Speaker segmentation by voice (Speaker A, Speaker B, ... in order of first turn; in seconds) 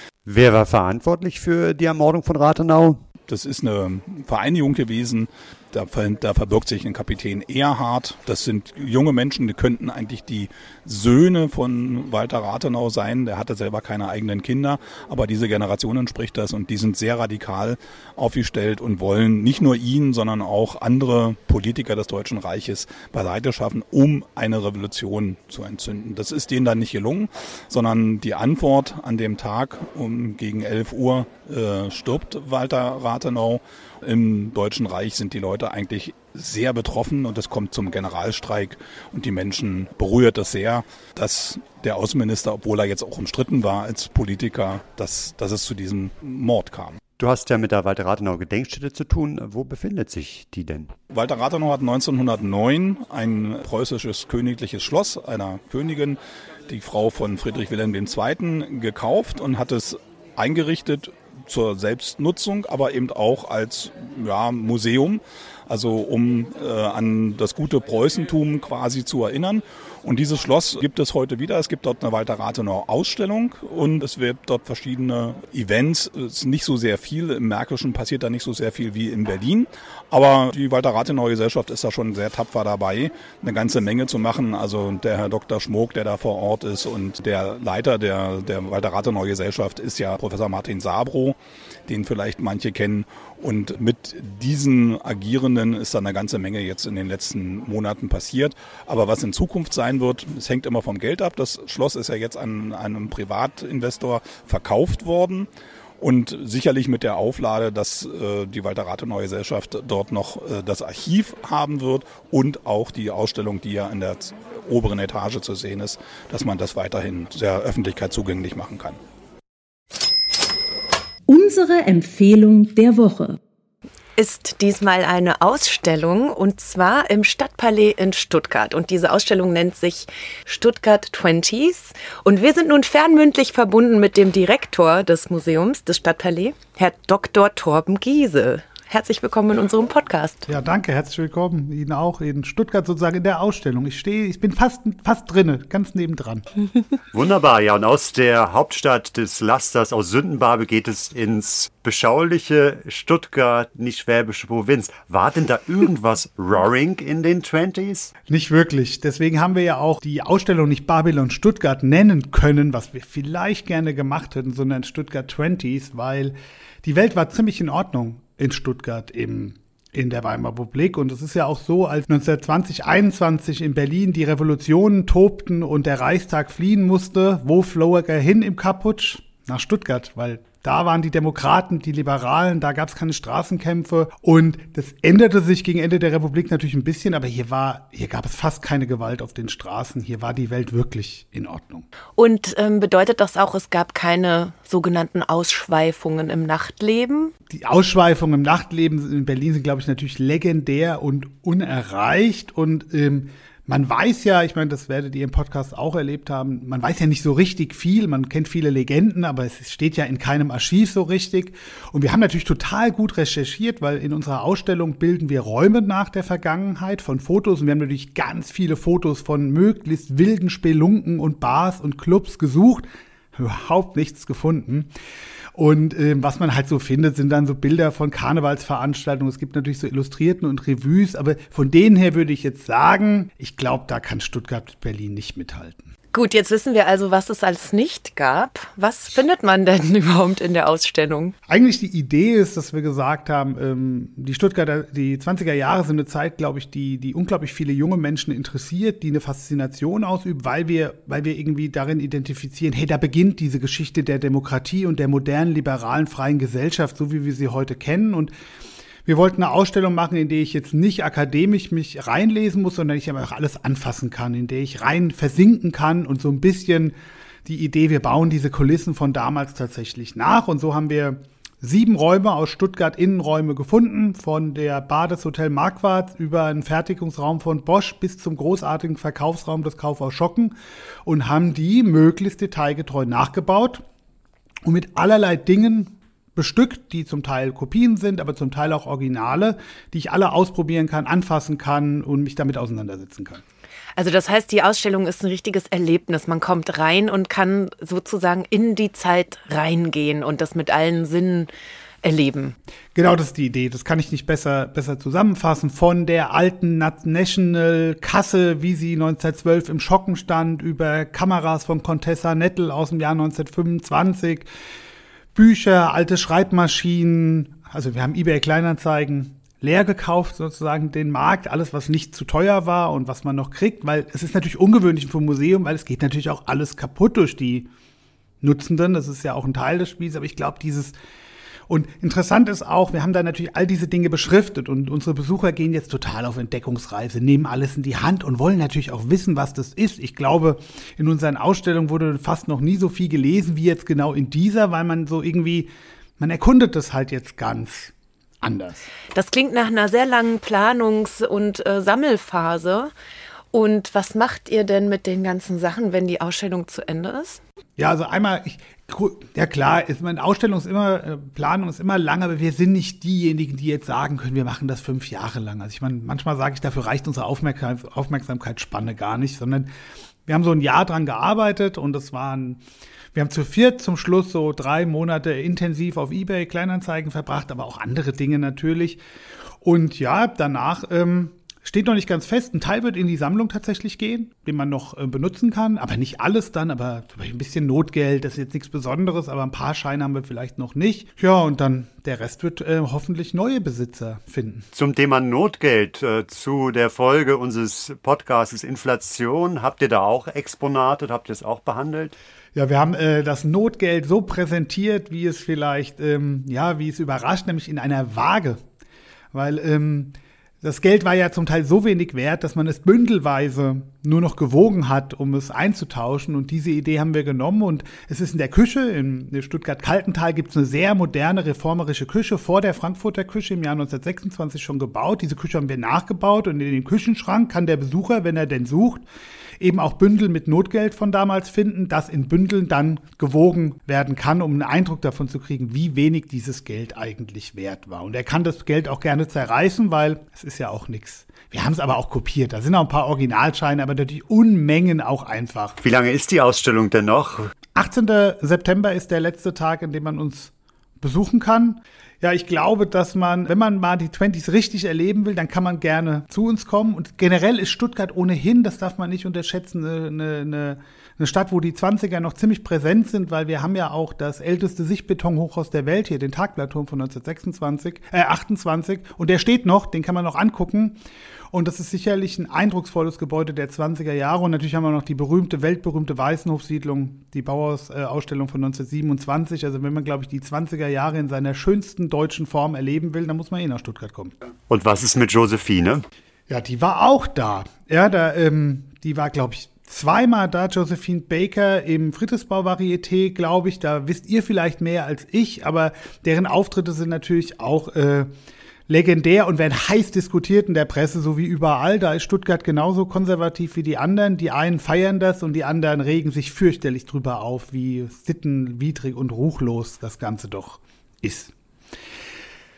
Speaker A: 0.2-3.0, 47.2-50.9, 147.1-158.1, 394.7-402.1, 445.8-447.5, 484.7-486.0
Speaker B: 3.3-47.0, 51.1-91.3, 91.9-105.5, 106.0-119.0
Speaker C: 121.3-123.4
Speaker D: 124.2-140.5, 192.2-197.3, 236.1-241.3, 293.9-301.5, 302.0-302.6, 349.1-352.9, 353.5-357.4
Speaker E: 140.5-146.4, 158.3-191.8, 197.5-224.9, 225.6-235.9, 241.5-258.3, 259.0-283.8, 284.6-293.4, 302.9-314.5, 315.3-327.7, 328.4-330.9, 331.7-348.9, 357.8-369.7, 370.3-372.6, 373.1-379.0, 379.6-394.7, 402.5-408.6, 409.3-429.0, 429.6-445.8, 447.8-471.0, 471.5-484.3, 486.5-498.3, 498.9-511.5